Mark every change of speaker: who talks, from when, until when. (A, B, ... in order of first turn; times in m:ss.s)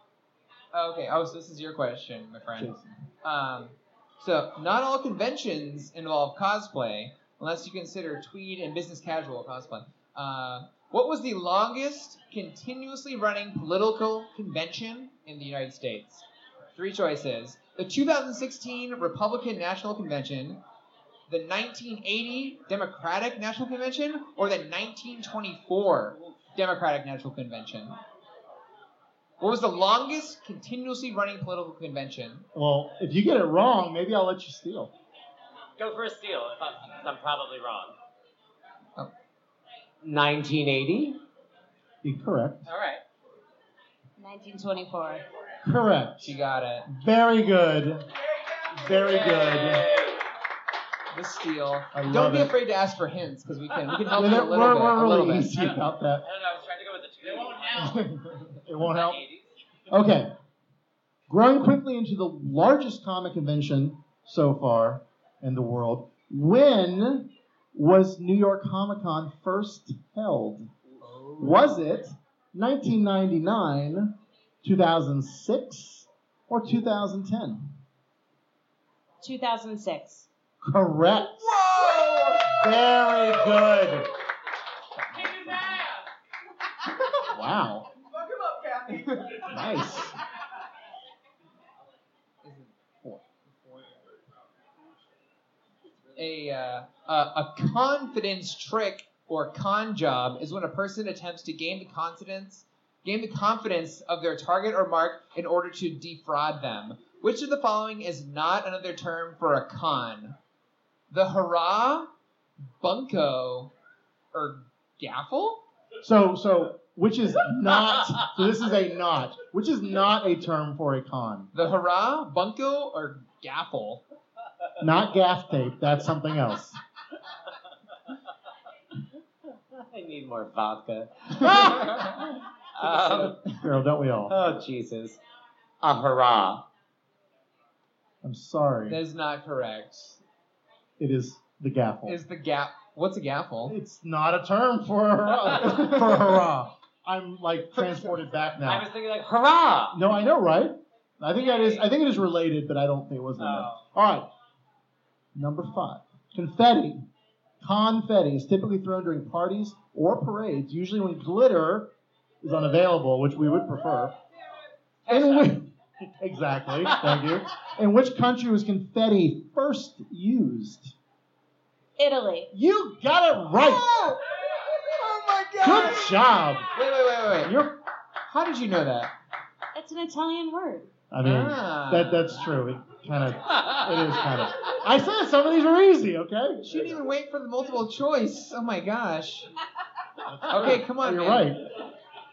0:00.7-0:02.7 A
0:02.6-0:02.9 B
0:03.2-0:20.6 A
0:21.3-0:27.9 A
0:29.4-0:32.4 A
0:32.5-0:34.9 B
0:35.8-0:37.9 C
0:40.0-0:41.2 C
0:42.0-0:42.6 B
0:42.6-0:43.0 C
0:44.2-0:45.2 D
0:45.6-0:46.4 B
0:46.2-0:46.8 A
0:46.9-0:48.0 B
0:48.7-0:50.0 B
0:51.1-0:55.5 A
0:51.9-0:52.5 B
0:54.1-0:56.2 B
0:56.2-0:57.9 C
0:57.8-0:59.2 B
0:58.8-0:59.4 C
0:59.9-1:00.3 B
1:01.3-1:10.7 B
1:11.0-1:11.7 A
1:11.4-1:17.7 B
1:19.2-1:20.3 D
1:20.6-1:21.9 B
1:22.4-1:24.1 B
1:25.1-1:25.8 B
1:27.3-1:27.8 B
1:29.5-1:30.2 B
1:32.4-1:33.2 A
1:36.2-1:50.4 A
1:51.1-1:52.1 A
1:52.8-1:53.7 A
1:54.3-1:55.6 A
1:56.0-2:01.5 B
2:01.5-2:04.0 A
2:04.8-2:06.8 B
2:09.8-2:12.0 C
2:11.5-2:12.1 A
2:12.8-2:13.4 C
2:12.8-2:13.3 A
2:13.5-2:14.4 B
2:14.3-2:15.2 C
2:15.8-2:16.6 C
2:18.2-2:19.0 B
2:18.9-2:20.2 A
2:21.0-2:22.2 B
2:22.0-2:23.7 A
2:23.6-2:28.9 B
2:25.8-2:26.2 A
2:28.6-2:30.0 C
2:29.9-2:34.3 B
2:31.4-2:31.8 C
2:33.4-2:33.8 C
2:35.3-2:37.0 B
2:37.6-2:41.9 B
2:42.4-2:44.1 B
2:45.0-2:45.5 A
2:45.1-2:45.7 B
2:46.2-2:50.9 B
2:52.0-2:52.5 D
2:52.5-2:54.2 B
2:55.0-2:56.1 A
2:55.6-2:56.7 B
2:56.7-2:57.6 A
2:57.4-2:57.7 B
2:58.3-2:59.1 A
2:59.7-3:00.9 D
3:01.1-3:07.0 B
3:01.2-3:02.4 A
3:06.6-3:09.5 A
3:10.3-3:11.6 B
3:10.5-3:11.5 A